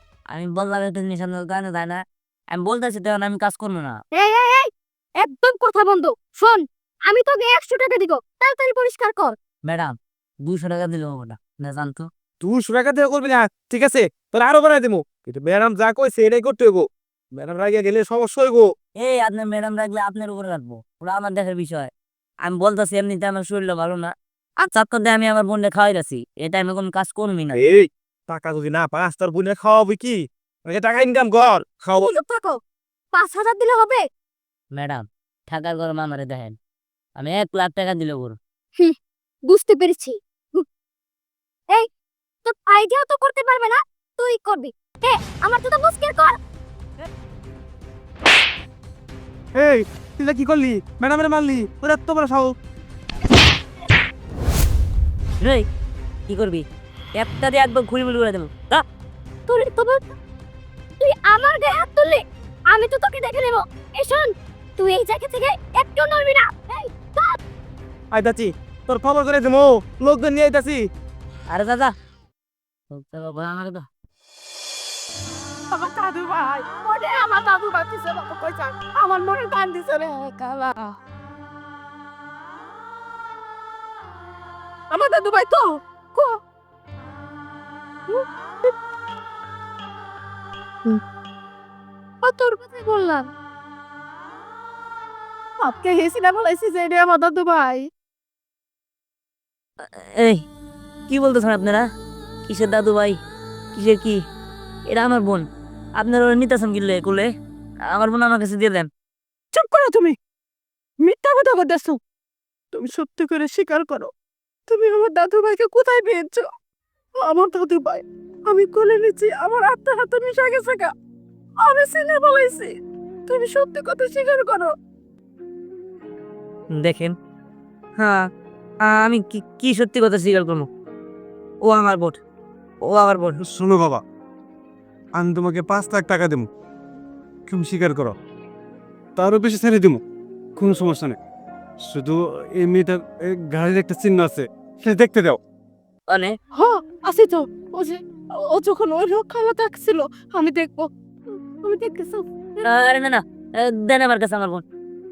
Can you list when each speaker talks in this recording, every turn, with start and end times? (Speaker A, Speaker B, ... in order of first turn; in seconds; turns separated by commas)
Speaker A: 0.3-4.0, Speaker B: 4.1-9.3, Speaker A: 9.7-12.1, Speaker C: 12.4-16.9, Speaker C: 17.4-18.7, Speaker A: 19.0-21.9, Speaker A: 22.4-24.1, Speaker A: 24.6-27.6, Speaker C: 27.5-32.1, Speaker B: 32.0-32.6, Speaker B: 33.1-34.0, Speaker A: 34.7-36.6, Speaker A: 37.2-38.4, Speaker B: 39.5-40.6, Speaker B: 42.4-46.4, Speaker C: 49.5-52.5, Speaker A: 55.4-55.6, Speaker A: 56.3-56.6, Speaker A: 57.2-58.8, Speaker B: 59.5-60.1, Speaker B: 61.0-67.4, Speaker C: 68.1-70.8, Speaker A: 71.5-71.9, Speaker A: 72.9-73.8, Speaker D: 75.7-81.0, Speaker D: 84.9-86.4, Speaker D: 92.3-93.2, Speaker B: 92.5-92.8, Speaker D: 95.6-97.9, Speaker A: 99.8-100.4, Speaker A: 101.1-101.8, Speaker A: 102.5-103.2, Speaker A: 103.7-104.2, Speaker A: 104.9-105.5, Speaker A: 106.0-107.3, Speaker A: 107.9-108.9, Speaker D: 109.5-110.2, Speaker D: 111.0-112.0, Speaker D: 112.7-114.1, Speaker D: 114.7-116.5, Speaker D: 117.2-120.9, Speaker D: 121.6-122.7, Speaker D: 123.3-124.7, Speaker A: 126.7-127.1, Speaker A: 128.0-128.3, Speaker A: 128.8-130.7, Speaker A: 131.6-132.2, Speaker A: 132.8-133.4, Speaker E: 133.4-134.0, Speaker E: 135.2-136.5, Speaker E: 137.5-138.1, Speaker E: 139.2-140.0, Speaker E: 140.6-141.2, Speaker E: 141.9-145.4, Speaker A: 146.1-146.3, Speaker D: 146.6-152.3, Speaker A: 152.6-154.6